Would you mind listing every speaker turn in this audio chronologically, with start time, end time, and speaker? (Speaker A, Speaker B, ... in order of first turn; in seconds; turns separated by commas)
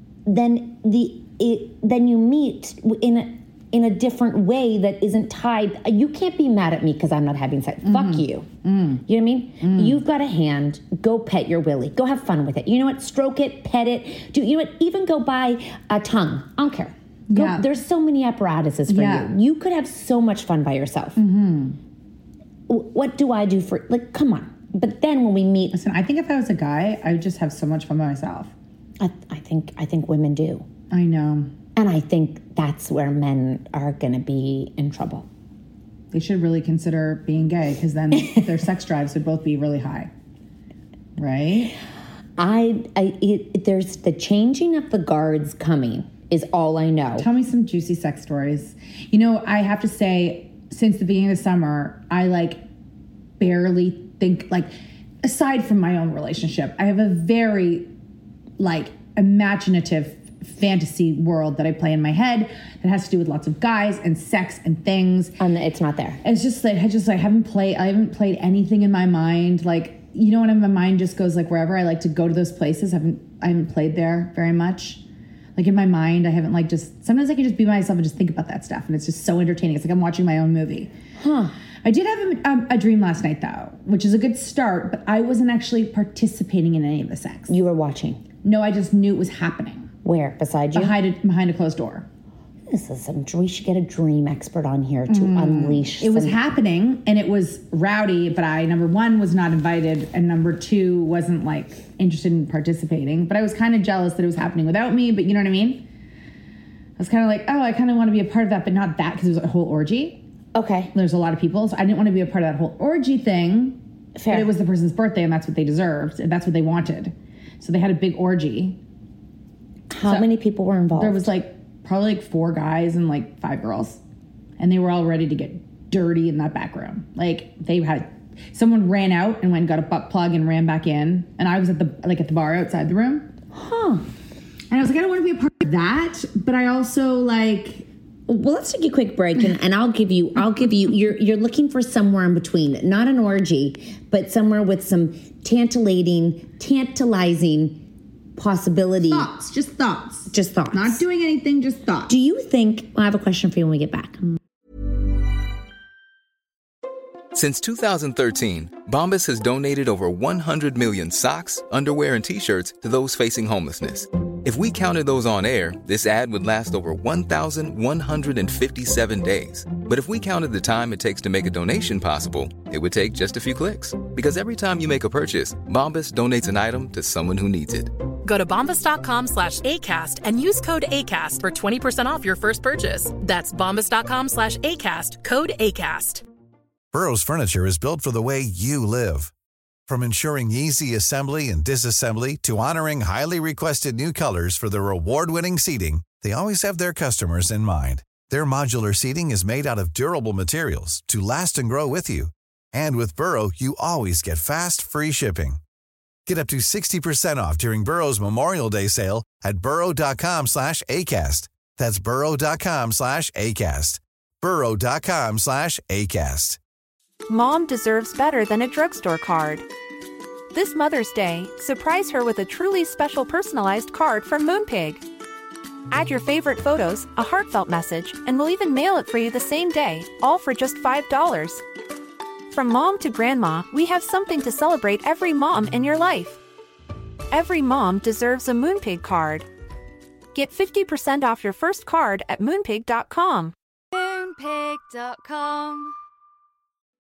Speaker A: 0.2-8.5, Speaker B: 7.8-9.0, Speaker A: 9.1-21.2, Speaker B: 9.6-10.0, Speaker B: 17.3-17.6, Speaker B: 18.9-19.3, Speaker B: 21.1-21.8, Speaker A: 22.7-25.8, Speaker B: 25.7-28.5, Speaker A: 29.0-30.6, Speaker B: 30.9-31.5, Speaker A: 31.8-35.2, Speaker B: 36.1-40.1, Speaker B: 41.2-41.7, Speaker A: 42.4-47.2, Speaker B: 47.1-52.6, Speaker B: 53.4-54.7, Speaker B: 55.2-57.9, Speaker B: 58.6-65.4, Speaker A: 65.4-66.2, Speaker B: 66.2-75.0, Speaker B: 75.5-80.9, Speaker A: 81.2-81.5, Speaker B: 81.8-87.5, Speaker A: 87.5-88.2, Speaker B: 88.4-89.9, Speaker A: 90.0-91.0, Speaker B: 90.7-92.1, Speaker A: 92.7-96.4, Speaker B: 95.1-105.8, Speaker B: 107.0-110.2, Speaker A: 110.5-110.9, Speaker B: 110.9-113.8, Speaker A: 114.2-114.5, Speaker B: 114.3-118.8, Speaker A: 119.9-121.3, Speaker B: 121.0-124.0, Speaker B: 124.6-133.3, Speaker A: 133.5-134.0, Speaker B: 134.7-137.9, Speaker A: 138.3-147.8, Speaker A: 148.4-149.3, Speaker B: 149.1-152.1, Speaker A: 150.3-151.0, Speaker A: 152.1-154.3, Speaker C: 157.3-177.9, Speaker D: 178.2-186.2, Speaker E: 186.9-189.3, Speaker E: 189.9-205.6, Speaker E: 206.2-216.6, Speaker F: 217.3-219.6, Speaker F: 220.5-225.0, Speaker F: 225.9-231.6, Speaker F: 232.5-236.4, Speaker F: 237.3-239.5, Speaker F: 240.3-243.5